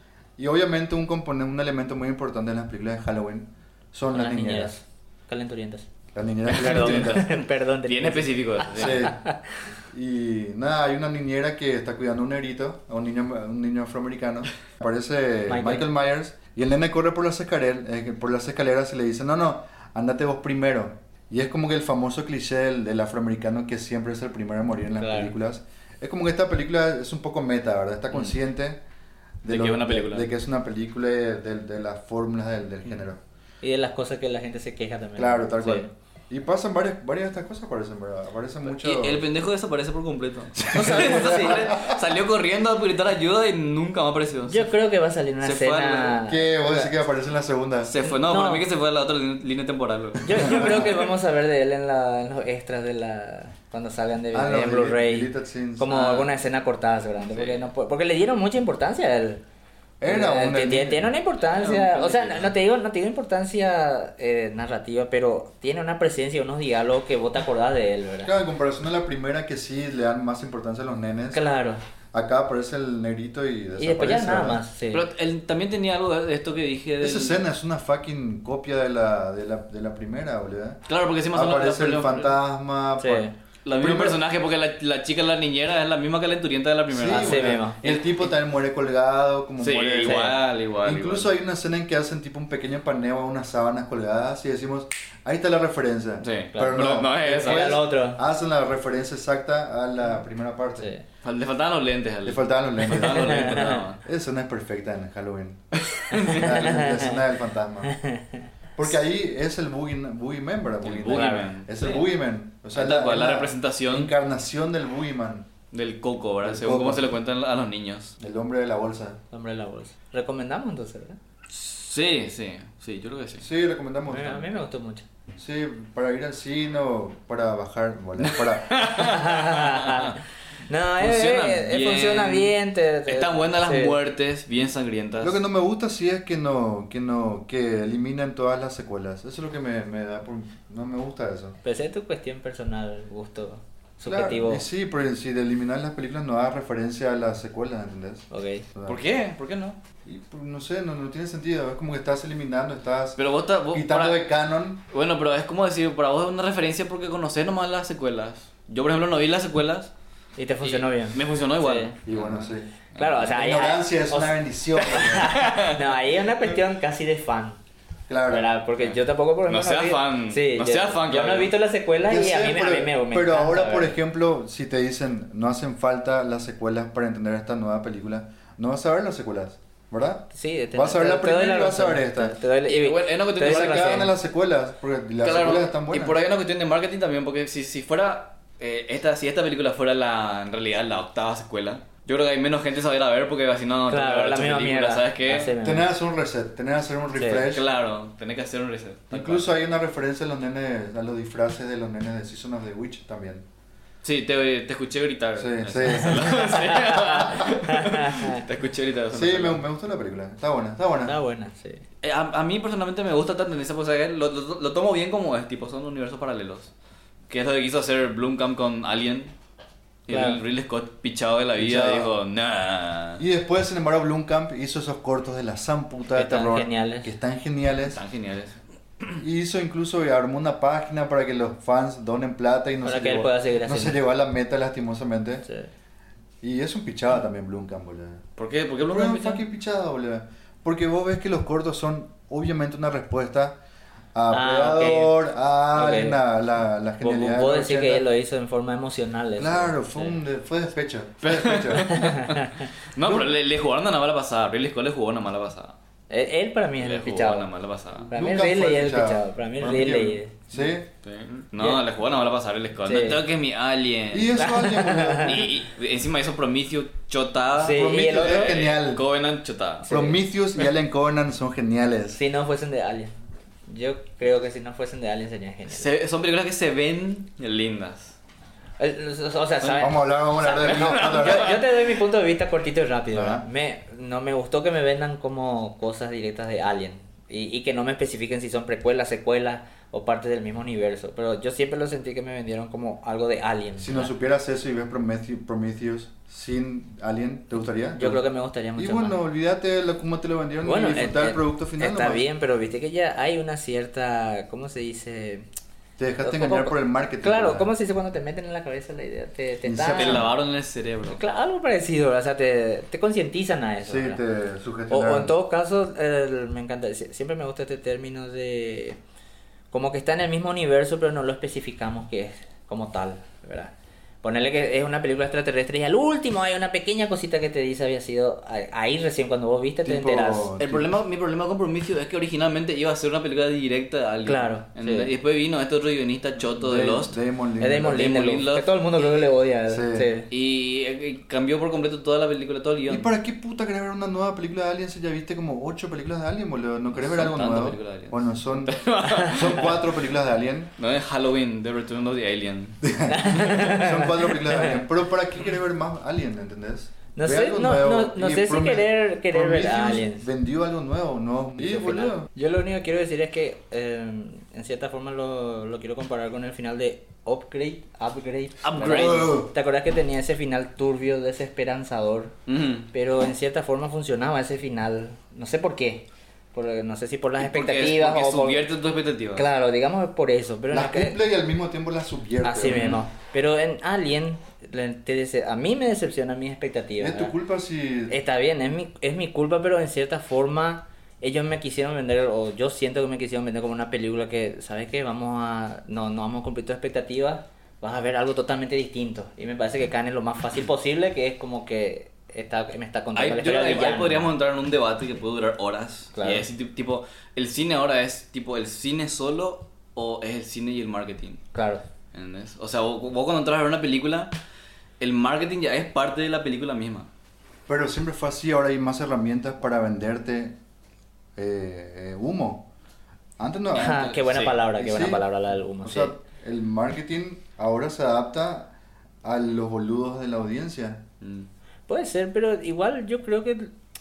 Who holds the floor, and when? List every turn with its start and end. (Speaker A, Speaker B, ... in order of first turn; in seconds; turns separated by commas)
Speaker A: 0.4-4.7, Speaker B: 4.1-5.9, Speaker A: 6.2-7.3, Speaker B: 6.5-9.6, Speaker C: 6.5-9.1, Speaker A: 8.7-9.2, Speaker A: 9.9-28.8, Speaker B: 15.5-15.9, Speaker B: 25.0-25.3, Speaker A: 29.4-33.2, Speaker C: 29.5-30.3, Speaker B: 33.6-35.9, Speaker A: 35.2-39.2, Speaker C: 38.7-44.7, Speaker A: 40.6-42.0, Speaker B: 40.7-41.8, Speaker B: 44.5-46.9, Speaker C: 45.4-46.2, Speaker A: 46.2-47.9, Speaker C: 47.9-51.0, Speaker B: 48.0-48.6, Speaker B: 50.2-59.4, Speaker A: 54.3-56.1, Speaker C: 56.0-56.2, Speaker C: 57.3-57.7, Speaker A: 60.0-61.1, Speaker B: 60.1-68.3, Speaker C: 61.4-62.5, Speaker A: 68.2-71.4, Speaker B: 71.3-71.8, Speaker A: 72.1-74.6, Speaker B: 73.8-75.0, Speaker C: 74.9-77.4, Speaker A: 77.0-80.8, Speaker C: 80.9-82.4, Speaker A: 81.3-83.3, Speaker B: 83.0-83.3, Speaker C: 83.7-88.0, Speaker A: 83.8-84.2, Speaker A: 86.9-100.9, Speaker B: 87.1-87.8, Speaker C: 89.6-91.3, Speaker B: 90.0-90.3, Speaker C: 96.2-97.8, Speaker B: 96.5-98.2, Speaker B: 100.8-101.0, Speaker C: 101.2-104.0, Speaker A: 102.2-105.6, Speaker B: 103.0-103.8, Speaker C: 105.8-106.6, Speaker B: 106.1-107.2, Speaker A: 106.3-107.9, Speaker B: 107.8-108.5, Speaker A: 108.8-115.5, Speaker C: 110.8-112.1, Speaker B: 111.1-111.5, Speaker C: 112.7-114.1, Speaker C: 115.7-118.1, Speaker A: 116.4-117.1, Speaker A: 118.2-119.2, Speaker B: 119.3-121.2, Speaker C: 121.5-123.5, Speaker A: 123.4-124.6, Speaker B: 124.1-125.1, Speaker A: 125.4-128.8, Speaker C: 128.2-130.2, Speaker B: 128.9-134.0, Speaker C: 131.0-135.4, Speaker A: 135.2-141.6, Speaker B: 141.6-144.6, Speaker A: 144.1-149.0, Speaker B: 148.3-148.7, Speaker C: 148.9-149.8, Speaker A: 150.1-153.2, Speaker C: 153.2-154.2, Speaker A: 153.7-154.8, Speaker C: 154.9-159.9, Speaker B: 160.4-162.0, Speaker C: 160.6-163.3, Speaker A: 162.1-162.7, Speaker B: 162.9-167.6, Speaker A: 163.3-165.3, Speaker C: 165.3-165.8, Speaker A: 168.1-168.5, Speaker B: 168.3-173.9, Speaker C: 168.8-171.5, Speaker A: 172.1-182.3, Speaker B: 180.3-184.1, Speaker C: 182.7-184.1, Speaker A: 183.4-186.2, Speaker C: 185.2-195.6, Speaker B: 193.9-195.9, Speaker A: 195.6-197.7, Speaker B: 197.2-197.4, Speaker C: 197.5-199.5, Speaker A: 199.1-203.4, Speaker C: 204.0-209.6, Speaker A: 205.4-206.4, Speaker B: 206.1-208.4, Speaker A: 209.1-211.2, Speaker B: 211.1-211.8, Speaker C: 212.0-216.7, Speaker C: 217.3-219.3, Speaker C: 220.1-223.2, Speaker B: 220.1-220.4, Speaker A: 221.6-222.1, Speaker A: 223.2-228.0, Speaker B: 226.2-227.1, Speaker C: 227.9-229.2, Speaker A: 229.2-235.4, Speaker B: 232.8-234.0, Speaker A: 236.4-238.2, Speaker C: 238.4-239.4, Speaker A: 238.8-243.6, Speaker A: 244.2-248.0, Speaker B: 244.3-245.1, Speaker B: 245.7-246.2, Speaker B: 247.0-250.2, Speaker A: 249.4-252.2, Speaker C: 251.2-255.8, Speaker B: 251.9-252.7, Speaker A: 253.0-253.3, Speaker B: 256.1-257.5, Speaker C: 256.8-258.1, Speaker B: 258.1-260.3, Speaker A: 258.1-260.9, Speaker C: 261.0-264.6, Speaker B: 262.9-263.2, Speaker A: 264.1-265.5, Speaker B: 264.4-265.4, Speaker C: 265.2-269.9, Speaker B: 267.6-268.5, Speaker A: 267.6-269.1, Speaker B: 269.9-270.2, Speaker A: 269.9-272.2, Speaker B: 272.1-273.1, Speaker B: 273.7-275.9, Speaker C: 275.7-278.2, Speaker B: 278.8-294.1, Speaker C: 279.6-279.9, Speaker A: 279.8-281.6, Speaker C: 280.4-281.6, Speaker A: 283.1-283.4, Speaker A: 293.8-298.2, Speaker B: 297.9-299.2, Speaker A: 298.8-302.2, Speaker B: 300.6-305.5, Speaker A: 306.0-307.7, Speaker B: 306.2-310.3, Speaker A: 309.6-310.3, Speaker C: 309.9-311.2, Speaker B: 311.1-314.2, Speaker A: 313.9-315.3, Speaker B: 314.9-319.0, Speaker B: 319.7-323.7, Speaker B: 324.2-330.5, Speaker A: 329.8-330.9, Speaker C: 330.6-337.2, Speaker B: 334.2-335.1, Speaker A: 336.6-338.1, Speaker B: 337.6-340.3, Speaker C: 337.7-338.8, Speaker A: 339.7-340.1, Speaker C: 340.3-343.1, Speaker A: 342.9-350.7, Speaker C: 346.9-349.8, Speaker C: 350.8-352.8, Speaker A: 352.8-362.3, Speaker B: 353.1-354.8, Speaker B: 357.1-360.3, Speaker B: 361.6-372.3, Speaker C: 368.6-369.4, Speaker A: 368.8-369.5, Speaker C: 372.5-372.9, Speaker B: 372.9-378.7, Speaker C: 377.4-379.4, Speaker B: 379.4-381.2, Speaker A: 380.7-383.0, Speaker B: 382.4-387.3, Speaker C: 382.7-383.0, Speaker A: 387.0-388.1, Speaker B: 388.1-404.3, Speaker C: 403.1-411.4, Speaker B: 406.2-406.5, Speaker B: 411.5-411.8, Speaker C: 412.1-414.3, Speaker C: 415.0-417.1, Speaker A: 417.7-420.6, Speaker A: 421.4-422.7, Speaker A: 423.4-424.1, Speaker B: 423.7-426.1, Speaker C: 423.8-424.6, Speaker A: 424.8-425.2, Speaker A: 425.8-428.7, Speaker A: 429.2-431.0, Speaker C: 431.2-431.5, Speaker B: 431.9-433.7